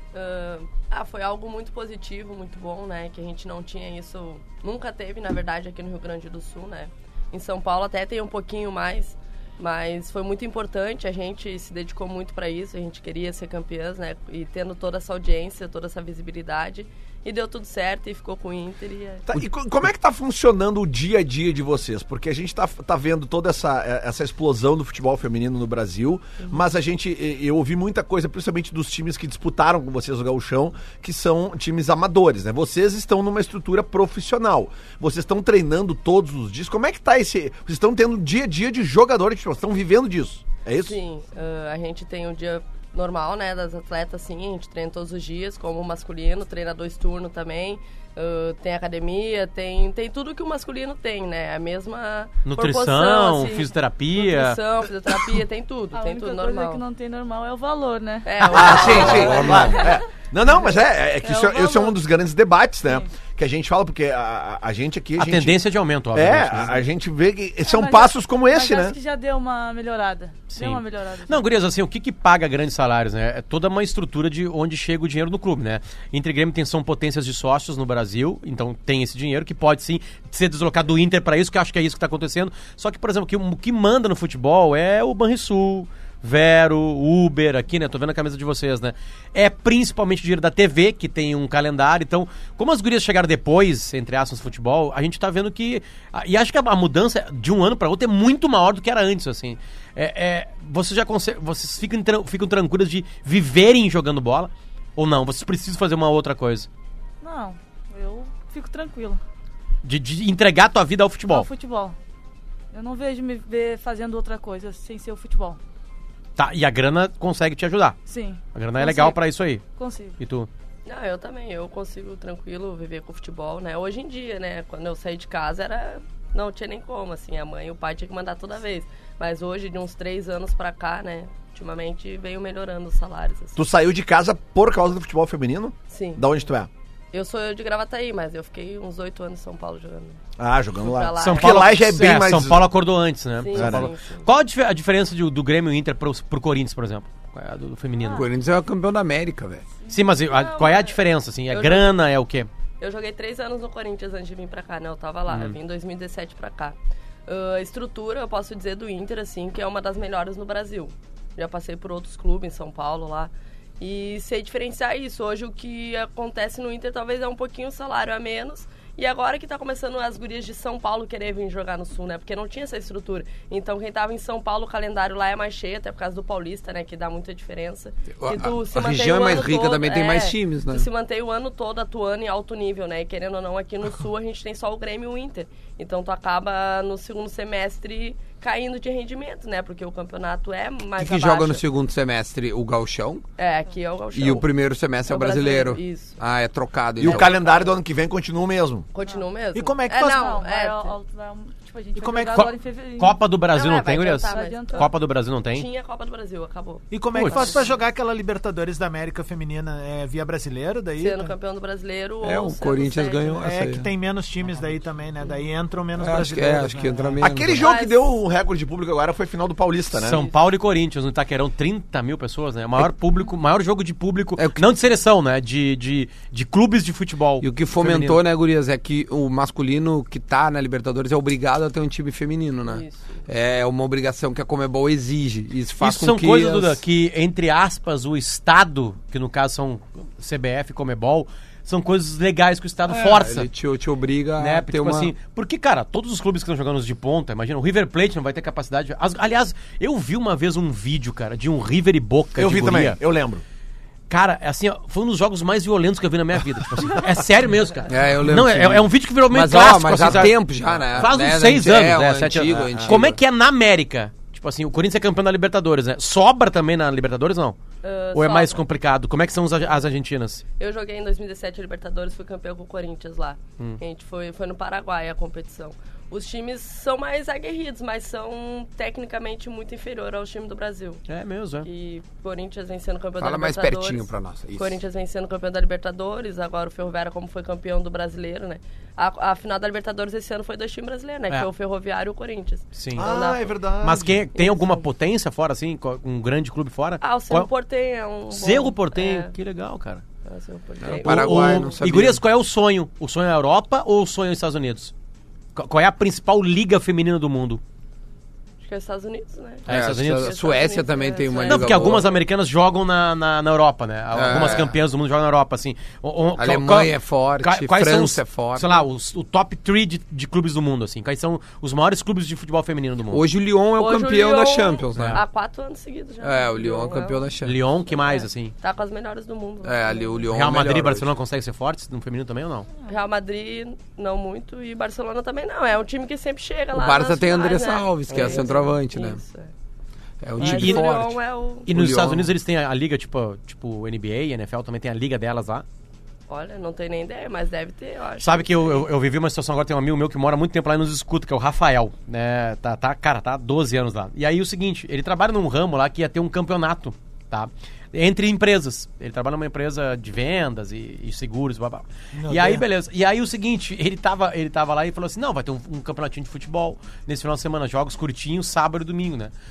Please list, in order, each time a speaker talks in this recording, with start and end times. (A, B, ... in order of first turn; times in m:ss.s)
0:00.1-0:19.3 A
0:19.3-0:41.0 B
0:40.8-0:56.8 A
0:52.4-0:54.6 C
0:55.9-0:58.7 D
0:58.2-1:00.0 A
0:58.5-1:05.6 B
0:59.1-0:59.8 E
1:01.2-1:02.0 D
1:05.2-1:06.8 C
1:06.1-1:09.0 B
1:07.6-1:11.5 D
1:10.5-1:46.7 C
1:47.2-1:49.2 D
1:49.8-1:51.5 C
1:51.3-1:52.0 D
1:52.7-1:55.6 D
1:56.4-1:58.0 C
1:58.1-1:59.2 D
1:58.5-1:59.6 C
1:59.8-2:00.2 D
2:00.2-2:00.5 C
2:00.9-2:13.6 A
2:13.6-2:16.7 B
2:15.9-2:16.2 A
2:17.1-2:20.2 A
2:20.4-2:22.7 B
2:20.8-2:21.6 A
2:21.2-2:28.3 C
2:23.4-2:24.3 A
2:23.5-2:23.9 B
2:28.1-2:29.6 E
2:29.9-2:32.5 C
2:30.3-2:31.0 A
2:31.5-2:31.9 A
2:32.8-2:36.8 A
2:37.3-3:11.6 A
2:58.2-3:00.9 E
3:11.0-3:13.2 E
3:13.4-3:14.5 A
3:14.1-3:17.3 E
3:15.1-3:16.2 A
3:17.0-3:18.9 B
3:17.0-3:17.8 A
3:18.9-3:21.0 A
3:19.5-3:20.2 F
3:20.0-3:23.2 D
3:22.0-3:22.4 F
3:22.3-3:25.7 C
3:23.5-3:24.9 A
3:24.3-3:24.9 D
3:25.5-3:27.7 A
3:26.9-3:31.3 F
3:27.1-3:27.6 C
3:31.0-3:33.5 A
3:32.2-3:33.9 E
3:33.4-3:37.2 F
3:36.0-3:37.7 E
3:37.2-3:40.2 B
3:37.6-3:38.0 A
3:39.9-3:48.2 C
3:44.4-3:44.7 E
3:47.4-3:56.8 E
3:52.7-3:53.2 A
3:55.8-4:03.5 C
4:02.9-4:05.1 E
4:04.4-4:13.0 C
4:12.4-4:13.4 B
4:14.1-4:20.4 C
4:17.9-4:23.2 E
4:20.9-4:27.6 C
4:22.5-4:23.0 B
4:27.8-4:28.6 A
4:28.1-4:30.4 C
4:30.6-4:41.0 A
4:41.1-4:41.7 C
4:41.6-4:53.5 A
4:43.2-4:44.8 E
4:52.8-4:53.1 C
4:53.0-4:54.2 B
4:53.8-4:57.5 C
4:54.4-4:54.8 A
4:57.0-4:59.3 A
4:58.3-5:00.0 C
5:00.2-5:01.7 A
5:00.8-5:02.2 E
5:00.8-5:04.9 C
5:05.6-5:07.6 C
5:08.6-5:12.2 A
5:09.7-5:10.4 C
5:09.7-5:12.1 E
5:11.5-5:23.2 C
5:14.1-5:14.7 E
5:16.4-5:18.8 E
5:23.1-5:25.2 E
5:23.8-5:27.2 A
5:25.0-5:25.2 C
5:26.2-5:27.6 E
5:27.4-5:28.5 C
5:27.9-5:30.2 A
5:29.6-5:31.1 E
5:30.3-5:32.7 C
5:32.9-5:39.5 A
5:36.7-5:39.2 E
5:38.1-5:38.4 C
5:40.2-5:42.3 E
5:40.4-5:40.9 C
5:40.4-5:41.7 A
5:41.7-5:45.6 C
5:46.3-5:48.8 A
5:48.2-6:09.3 C
6:02.2-6:02.6 F